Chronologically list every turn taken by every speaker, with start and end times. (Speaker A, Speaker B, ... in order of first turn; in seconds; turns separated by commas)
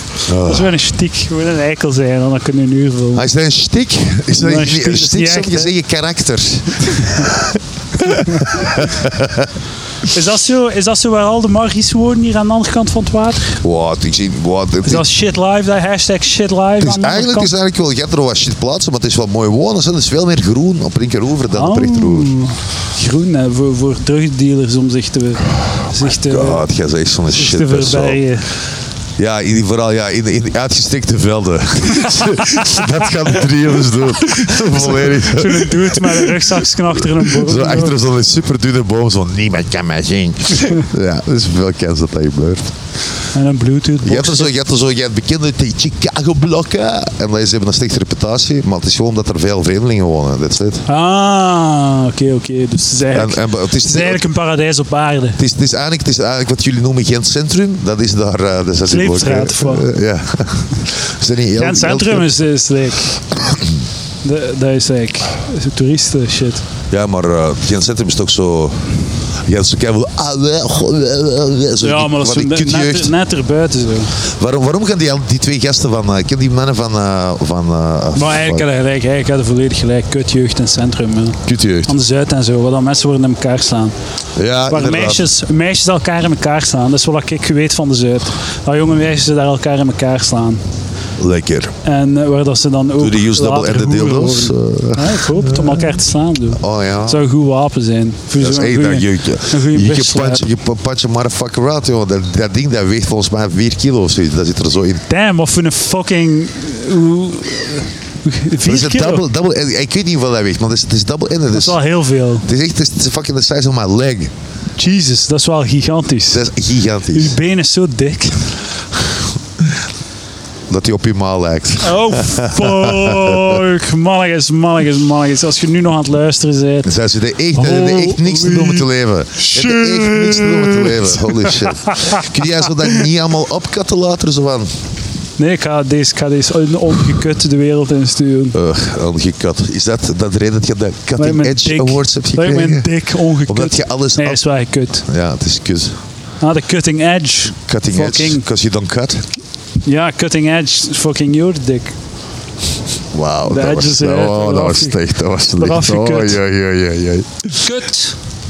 Speaker A: 0.2-0.7, Speaker B: 0.4-3.3, Speaker A: 3.1-9.5, Speaker B: 4.4-5.7, Speaker B: 10.1-13.6, Speaker A: 13.6-15.1, Speaker B: 14.8-17.5, Speaker A: 16.8-22.3, Speaker B: 21.5-26.6, Speaker A: 26.1-28.2, Speaker B: 27.3-28.5, Speaker A: 29.2-42.7, Speaker B: 34.4-38.0, Speaker B: 43.3-44.5, Speaker A: 44.0-50.8, Speaker B: 50.9-55.4, Speaker A: 53.1-54.2, Speaker A: 55.4-62.3, Speaker B: 58.8-59.9, Speaker B: 61.5-63.2, Speaker A: 63.3-63.8, Speaker B: 64.2-66.6, Speaker A: 66.9-73.1, Speaker B: 71.8-74.1, Speaker A: 74.2-78.7, Speaker B: 78.1-83.9, Speaker A: 81.4-81.9, Speaker A: 84.3-85.3, Speaker B: 84.7-90.6, Speaker A: 91.2-91.7, Speaker B: 91.8-100.5, Speaker A: 93.0-96.0, Speaker A: 96.5-97.2, Speaker A: 98.4-105.0, Speaker B: 105.1-109.2, Speaker A: 108.6-111.8, Speaker B: 111.5-112.5, Speaker A: 112.4-114.3, Speaker B: 114.8-116.5, Speaker A: 116.3-117.4, Speaker B: 117.1-118.6, Speaker A: 120.7-123.6, Speaker B: 121.8-126.9, Speaker A: 126.8-134.7, Speaker B: 127.5-132.3, Speaker B: 135.4-138.6, Speaker A: 138.5-144.4, Speaker B: 141.2-145.1, Speaker A: 145.0-146.0, Speaker B: 146.4-148.4, Speaker A: 147.7-149.3, Speaker B: 149.8-151.9, Speaker A: 153.1-157.7, Speaker B: 153.4-155.0, Speaker B: 155.6-156.4, Speaker B: 157.6-158.2